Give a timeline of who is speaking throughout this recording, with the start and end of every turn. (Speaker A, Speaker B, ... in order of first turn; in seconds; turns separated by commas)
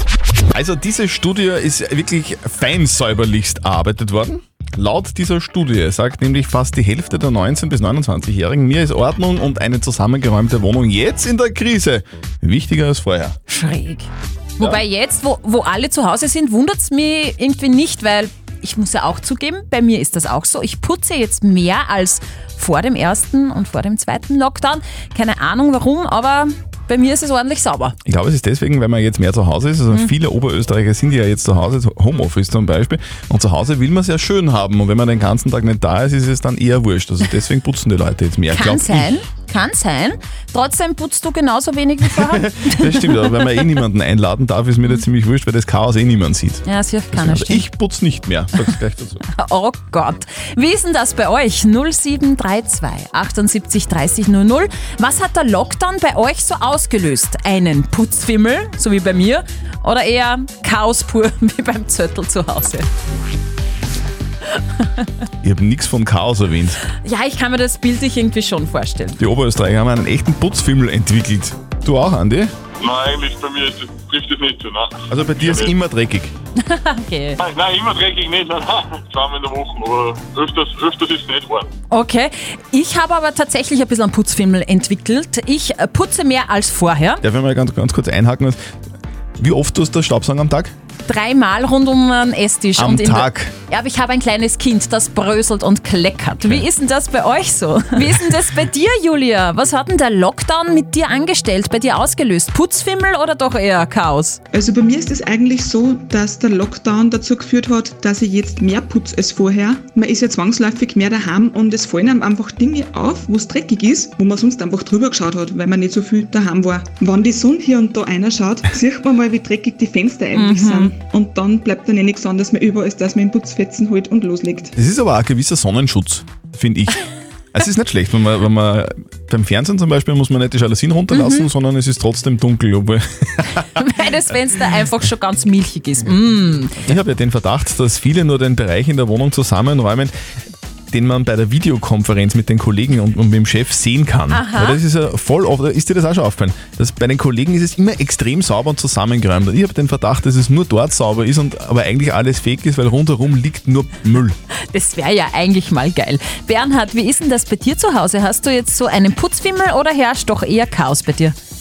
Speaker A: 0.5-13.4, Speaker B: 13.5-27.9, Speaker A: 28.1-39.2, Speaker B: 38.5-43.6, Speaker A: 42.3-49.2, Speaker B: 46.6-47.6, Speaker B: 49.3-62.9, Speaker A: 65.4-66.8, Speaker B: 66.9-69.2, Speaker A: 69.2-72.5, Speaker C: 72.8-75.7, Speaker A: 75.1-76.3, Speaker B: 76.6-77.4, Speaker C: 77.4-81.7, Speaker B: 81.9-87.2, Speaker A: 87.2-88.6, Speaker A: 89.4-90.7, Speaker B: 91.0-104.4, Speaker A: 92.8-93.5, Speaker D: 104.5-124.6, Speaker B: 120.3-120.9, Speaker A: 124.8-133.8, Speaker B: 131.1-131.5, Speaker B: 133.8-136.9, Speaker A: 136.8-140.1, Speaker A: 140.9-154.3, Speaker B: 144.3-144.8, Speaker B: 154.7-161.4